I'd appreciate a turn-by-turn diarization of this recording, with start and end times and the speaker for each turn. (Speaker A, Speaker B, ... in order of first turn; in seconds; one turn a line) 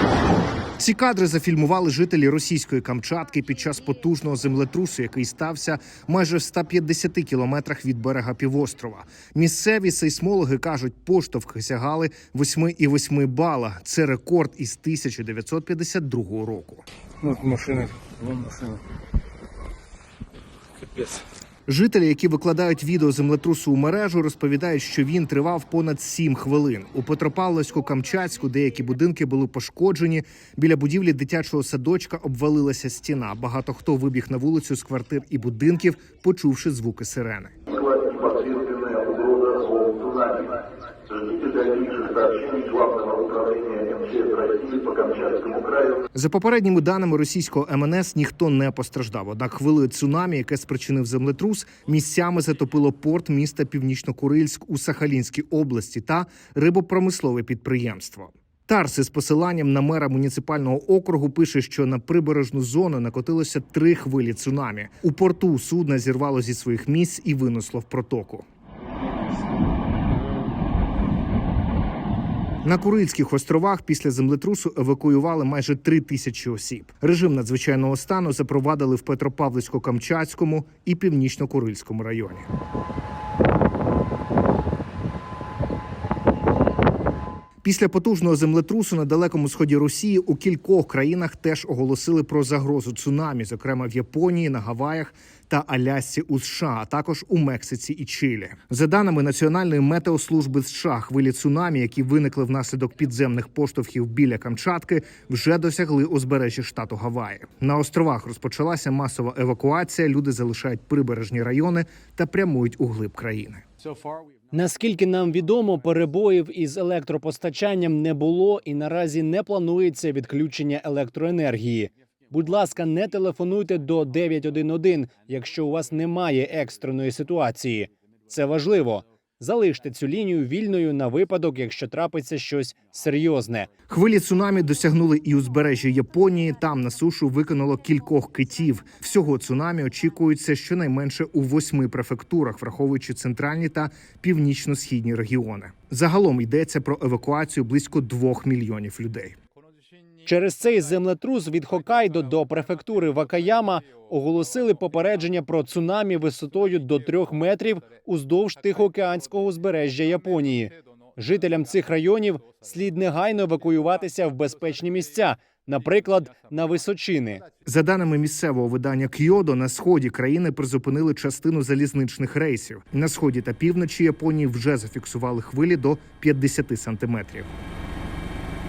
Speaker A: 0.8-16.8
Speaker B: 17.2-18.8
Speaker B: 20.8-21.2
Speaker A: 21.7-37.5
Speaker B: 37.8-40.5
Speaker B: 41.2-45.9
Speaker A: 46.1-68.5
Speaker A: 72.6-82.5
Speaker A: 87.6-113.6
Speaker C: 114.5-133.7
Speaker A: 133.9-149.4
Speaker C: 150.2-167.4
Speaker A: 167.7-177.5